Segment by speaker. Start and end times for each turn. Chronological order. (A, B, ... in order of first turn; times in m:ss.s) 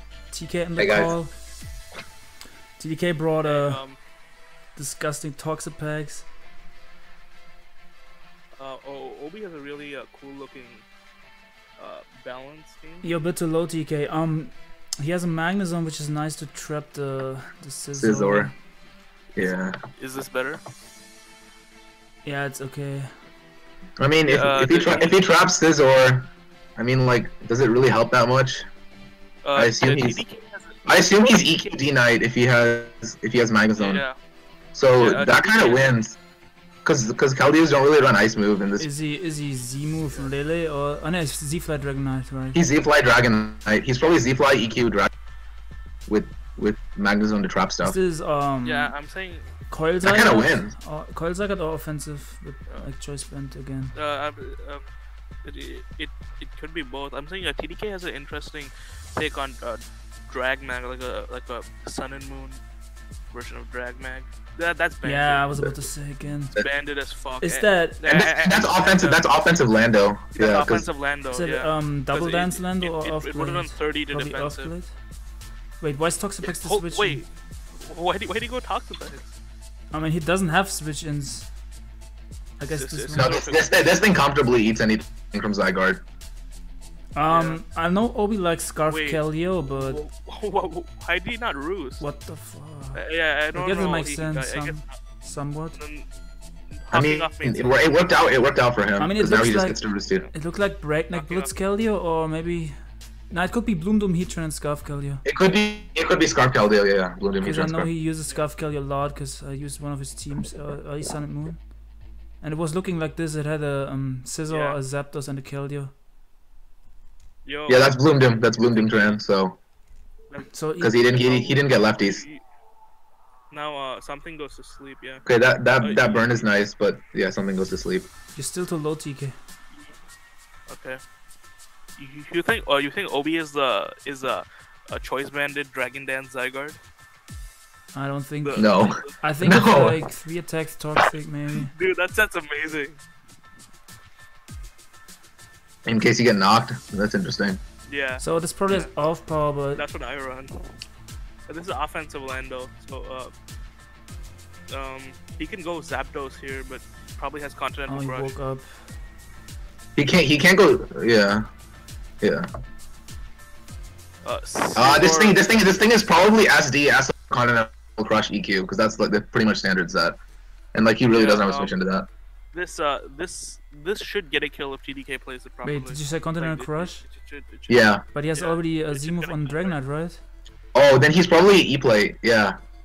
0:00.3-0:01.4 A
0:00.8-0:01.4 B
0:02.8-0:03.8 A
0:03.4-0:04.0 C
0:04.7-0:06.3 A
0:08.6-0:10.8 C
0:11.8-0:13.1 C
0:13.0-0:18.6 A
0:18.0-0:18.5 B
0:19.4-0:19.7 B
0:19.4-0:20.6 C
0:22.2-0:23.1 A
0:24.0-0:28.6 B
0:24.2-0:25.2 C
0:29.4-0:30.9 C
0:29.5-0:30.2 B
0:30.9-0:34.0 B
0:33.7-0:34.2 C
0:34.7-0:36.2 B
0:35.0-0:35.9 C
0:36.8-0:38.9 B
0:38.8-0:42.6 A
0:42.5-0:45.1 B
0:46.1-0:48.0 B
0:47.8-0:49.0 A
0:48.6-0:49.6 C
0:49.7-0:54.0 A
0:50.0-0:50.7 B
0:53.9-0:54.8 C
0:55.4-1:02.6 C
1:03.3-1:05.4 C
1:05.0-1:06.6 A
1:05.6-1:05.8 B
1:06.6-1:09.6 C
1:07.4-1:08.0 A
1:08.0-1:10.9 B
1:10.3-1:14.8 C
1:11.3-1:15.0 A
1:15.8-1:17.2 A
1:16.4-1:19.3 C
1:19.9-1:21.5 A
1:22.6-1:23.4 A
1:22.7-1:23.9 C
1:23.1-1:26.0 B
1:27.1-1:30.0 A
1:27.2-1:27.6 C
1:28.9-1:32.1 C
1:32.0-1:35.8 A
1:32.9-1:35.0 C
1:35.7-1:36.1 C
1:36.7-1:37.8 C
1:36.9-1:40.3 B
1:39.0-1:45.2 A
1:41.1-1:41.5 C
1:45.2-1:47.9 B
1:47.4-1:51.7 A
1:52.4-1:55.9 A
1:54.5-1:54.8 C
1:57.4-1:59.2 C
1:57.7-1:59.6 B
2:00.5-2:01.0 A
2:00.8-2:02.2 B
2:01.0-2:02.4 C
2:03.5-2:05.2 C
2:05.2-2:08.1 B
2:05.8-2:06.4 C
2:08.3-2:09.4 A
2:10.7-2:11.0 C
2:12.0-2:16.8 C
2:17.9-2:21.7 A
2:18.4-2:19.2 C
2:18.6-2:20.0 B
2:21.7-2:23.0 C
2:25.8-2:27.6 B
2:27.9-2:28.9 C
2:28.2-2:29.8 A
2:29.7-2:30.5 C
2:31.5-2:33.3 C
2:34.7-2:38.3 C
2:37.9-2:38.8 A
2:40.0-2:41.4 B
2:42.2-2:42.4 B
2:44.2-2:46.2 C
2:44.8-2:50.2 B
2:50.7-2:52.1 B
2:51.1-2:51.8 C
2:52.5-2:59.8 C
2:55.6-2:57.0 A
2:57.7-2:58.0 B
2:58.1-3:00.2 A
3:00.7-3:02.6 B